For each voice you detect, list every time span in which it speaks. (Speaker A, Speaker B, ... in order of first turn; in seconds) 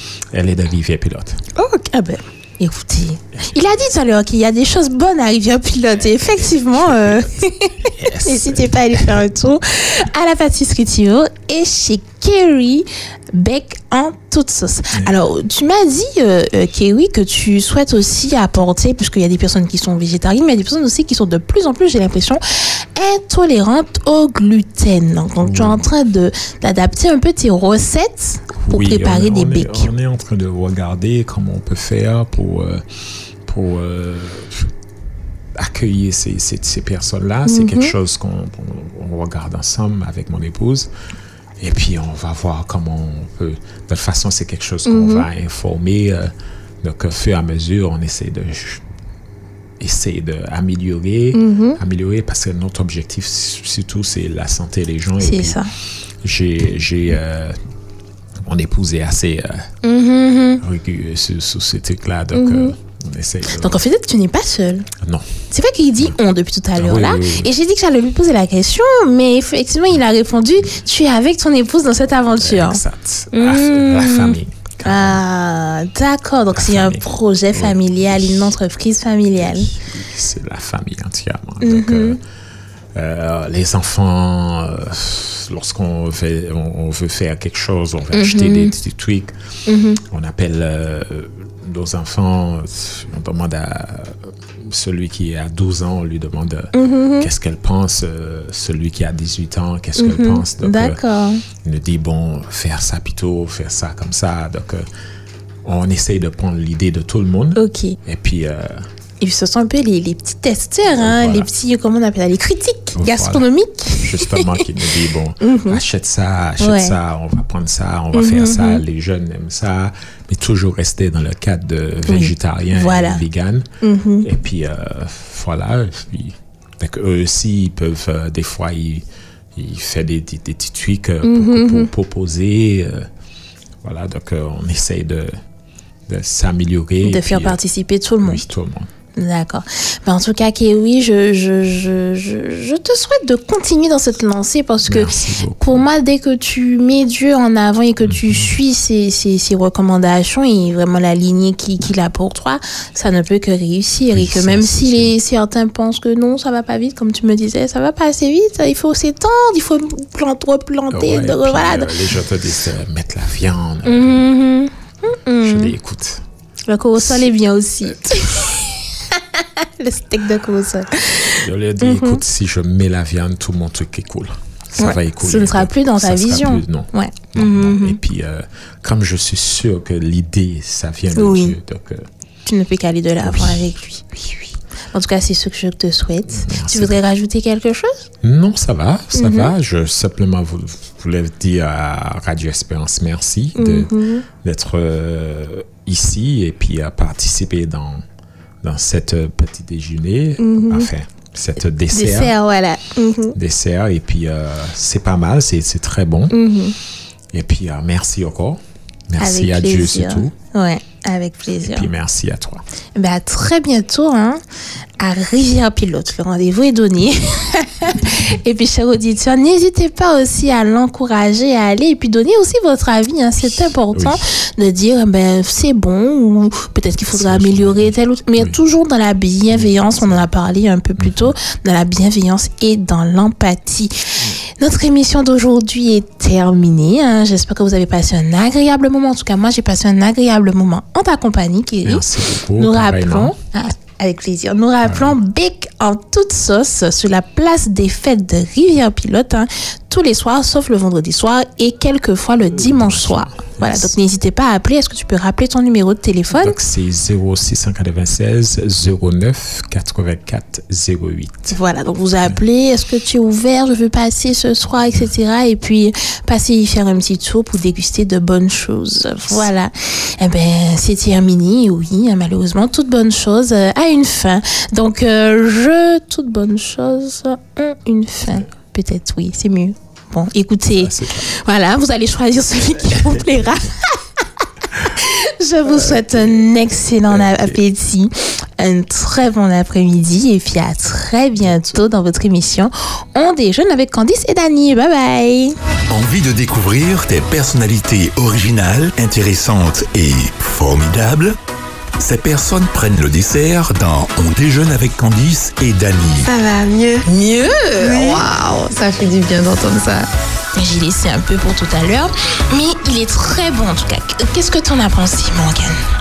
Speaker A: 0.3-1.4, 6.5-9.2, 25.4-25.9, 28.6-32.8, 33.4-34.7, 35.5-40.9, 41.6-48.8, 49.8-55.6, 56.2-57.6, 58.4-59.7, 60.6-63.8, 65.0-65.3, 66.8-67.5, 72.4-75.2, 76.5-78.5, 79.4-82.2, 82.9-89.3, 90.0-104.8, 105.6-108.9, 110.9-111.5, 112.9-133.1, 133.8-135.3, 136.1-137.6, 138.2-138.9, 144.8-145.9, 148.1-148.5, 154.1-155.1, 160.9-164.3, 165.4-166.2, 167.0-167.3, 171.3-182.1, 183.2-184.6, 186.3-187.0, 188.2-198.0, 198.6-202.3, 203.3-206.4, 207.3-210.3, 211.7-212.6, 223.9-224.2, 227.1-228.6, 229.5-230.3, 231.0-231.3, 241.8-243.3, 244.8-245.1, 252.5-253.9, 256.3-261.6, 280.8-281.3, 282.9-283.3, 285.7-286.5, 287.1-287.6
Speaker B: 1.6-29.9, 37.5-38.0, 44.9-45.3, 51.3-51.8, 55.2-55.7, 59.8-60.6, 62.3-62.8, 63.5-64.9, 65.5-72.8, 73.3-79.7, 81.6-82.2, 88.1-88.7, 89.7-90.0, 96.7-97.3, 100.0-101.5, 107.6-108.0, 109.2-114.7, 115.4-115.8, 116.6-117.0, 118.1-118.8, 122.1-123.2, 123.8-124.3, 131.2-131.9, 137.0-138.5, 139.2-161.9, 163.8-165.8, 166.7-172.2, 174.8-178.0, 181.1-181.6, 182.4-184.1, 184.9-188.1, 189.1-189.5, 193.6-194.3, 200.4-200.9, 201.9-203.4, 206.3-206.8, 209.2-211.9, 212.9-214.4, 215.0-242.1, 242.6-256.6, 261.5-284.0, 284.7-295.6, 307.8-308.2, 310.6-315.8
Speaker C: 295.9-301.4, 302.0-306.3
Speaker D: 306.2-310.1